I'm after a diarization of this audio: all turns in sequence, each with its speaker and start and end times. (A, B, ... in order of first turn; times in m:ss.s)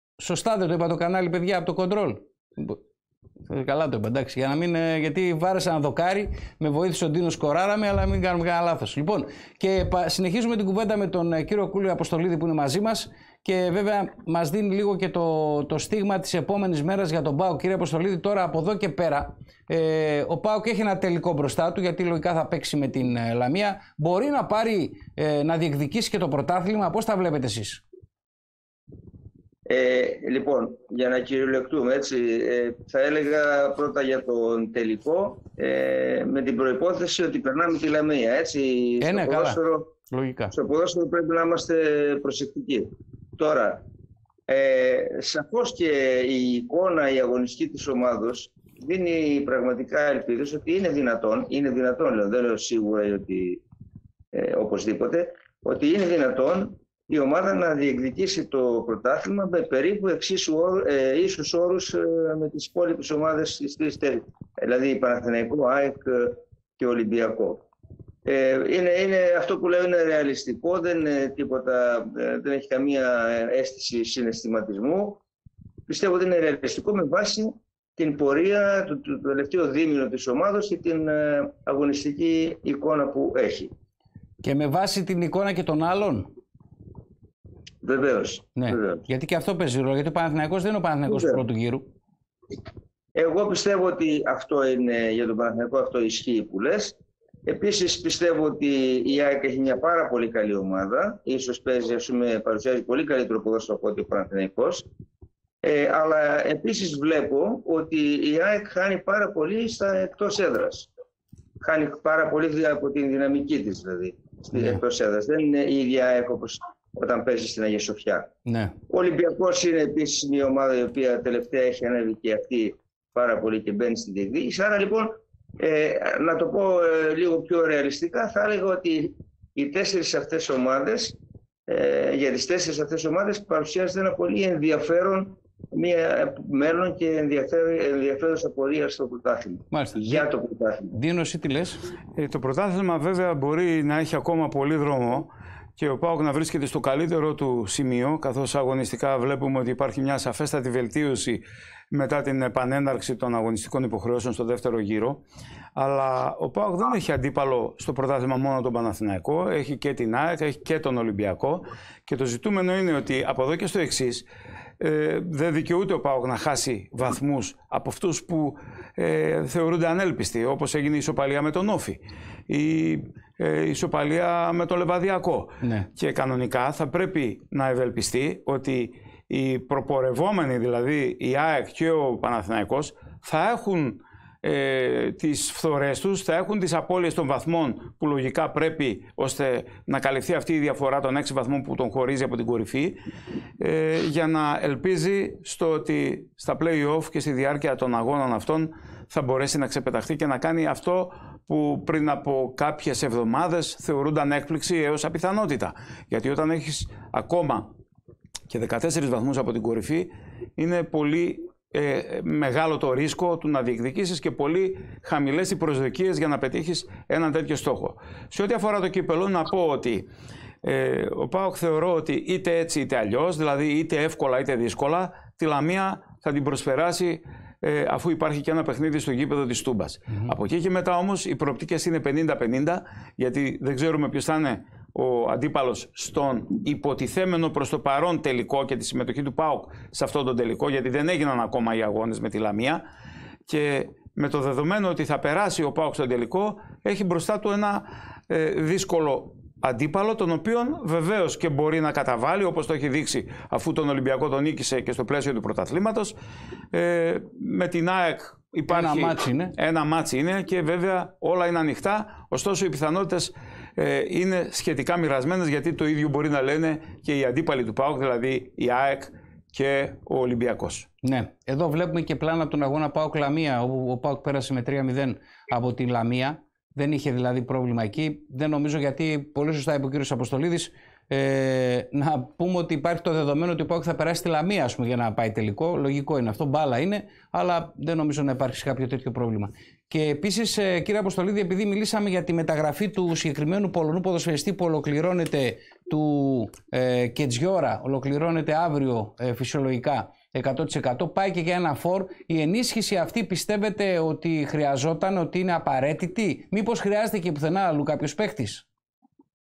0:00.2-0:02.8 A
0:03.5-0:27.8 A
0:29.6-0:39.9 B
0:39.0-0:39.6 A
0:40.1-0:40.5 A
0:40.5-0:43.8 B
0:44.5-0:53.6 B
0:54.3-1:07.6 B
1:08.2-1:15.2 B
1:15.9-1:23.7 B
1:24.4-1:26.3 A
1:27.8-1:29.0 B
1:28.6-1:31.8 A
1:31.0-1:31.4 B
1:33.1-1:36.9 B
1:37.5-1:44.8 B
1:45.6-1:50.9 B
1:51.6-1:58.3 B
1:54.5-1:54.8 A
1:58.4-1:58.7 A
1:58.9-2:11.2 B
2:11.7-2:20.9 B
2:19.7-2:20.3 A
2:20.9-2:21.8 A
2:22.1-2:35.2 C
2:35.7-2:44.3 C
2:44.8-3:13.0 C
2:55.6-2:55.9 A
3:13.6-3:27.7 C
3:28.5-3:40.1 C
3:40.6-4:02.8 C
4:03.5-4:16.2 C
4:16.7-4:30.9 C
4:18.7-4:19.5 A
4:31.0-5:08.6 A